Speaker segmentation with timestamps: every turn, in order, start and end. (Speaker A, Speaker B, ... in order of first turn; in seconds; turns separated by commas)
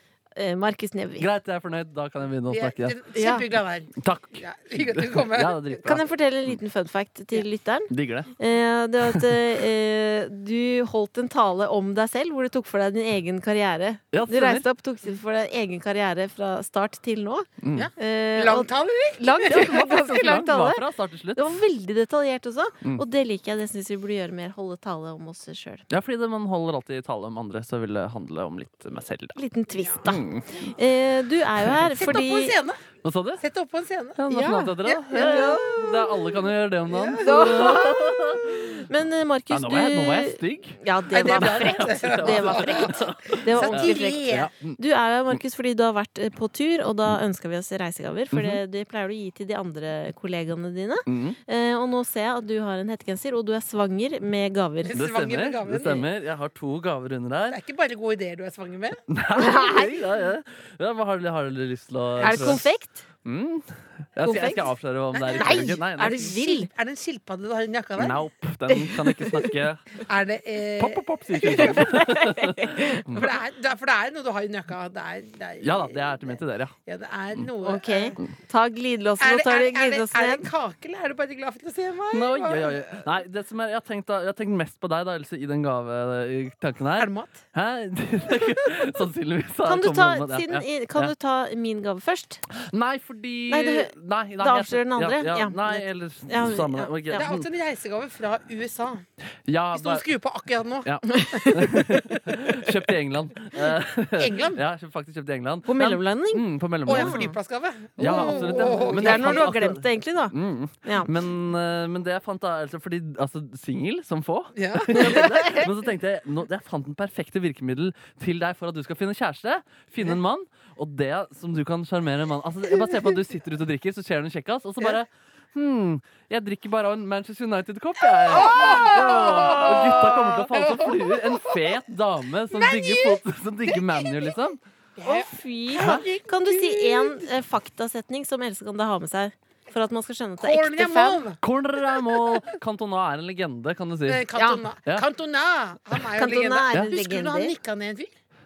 Speaker A: 0.3-1.3, Speaker B: 1.2-3.0, Speaker C: 2.5-5.8, Speaker A: 3.1-3.5, Speaker B: 4.0-6.5, Speaker A: 5.8-20.8, Speaker B: 7.9-8.3, Speaker B: 14.1-14.7, Speaker B: 17.6-17.9, Speaker C: 17.7-19.8, Speaker B: 19.4-21.6, Speaker A: 21.3-25.8, Speaker B: 25.9-29.4, Speaker A: 29.4-32.5, Speaker C: 29.8-30.0, Speaker B: 30.0-30.5, Speaker C: 31.9-32.9, Speaker B: 33.0-33.4, Speaker C: 33.4-34.2, Speaker B: 34.2-38.9, Speaker A: 34.3-35.7, Speaker C: 35.1-36.3, Speaker C: 36.9-37.8, Speaker A: 37.2-55.0, Speaker B: 39.5-44.8, Speaker C: 41.1-44.5, Speaker B: 48.3-48.6, Speaker B: 51.1-51.4, Speaker C: 54.9-56.0, Speaker B: 54.9-57.6, Speaker C: 57.5-59.0, Speaker B: 59.1-62.6, Speaker A: 59.3-60.0, Speaker C: 62.2-62.6, Speaker A: 62.2-63.0, Speaker B: 63.2-66.3, Speaker A: 64.2-64.7, Speaker C: 65.1-68.2, Speaker A: 65.3-66.7, Speaker B: 68.0-70.0, Speaker A: 68.7-69.5, Speaker C: 70.0-71.9, Speaker B: 70.8-73.3, Speaker A: 71.4-73.0, Speaker C: 73.1-78.2, Speaker B: 75.6-76.7, Speaker A: 77.6-80.5, Speaker C: 79.2-83.0, Speaker B: 82.1-91.1, Speaker C: 87.0-87.4, Speaker A: 89.6-92.4, Speaker B: 92.5-97.5, Speaker A: 93.5-97.2, Speaker C: 97.1-99.0, Speaker B: 99.5-100.0, Speaker C: 99.7-100.9, Speaker B: 100.8-107.2, Speaker A: 101.1-102.0, Speaker C: 104.2-104.6, Speaker A: 105.7-107.3, Speaker C: 106.8-109.6, Speaker A: 108.0-111.1, Speaker B: 108.0-134.6, Speaker C: 114.5-115.7, Speaker A: 114.9-115.6, Speaker C: 128.3-131.6, Speaker C: 132.5-134.3, Speaker C: 135.0-137.2, Speaker A: 135.0-141.2, Speaker B: 135.8-136.0, Speaker C: 140.4-141.4, Speaker B: 141.4-144.3, Speaker C: 144.1-148.1, Speaker A: 144.3-144.6, Speaker A: 146.2-147.5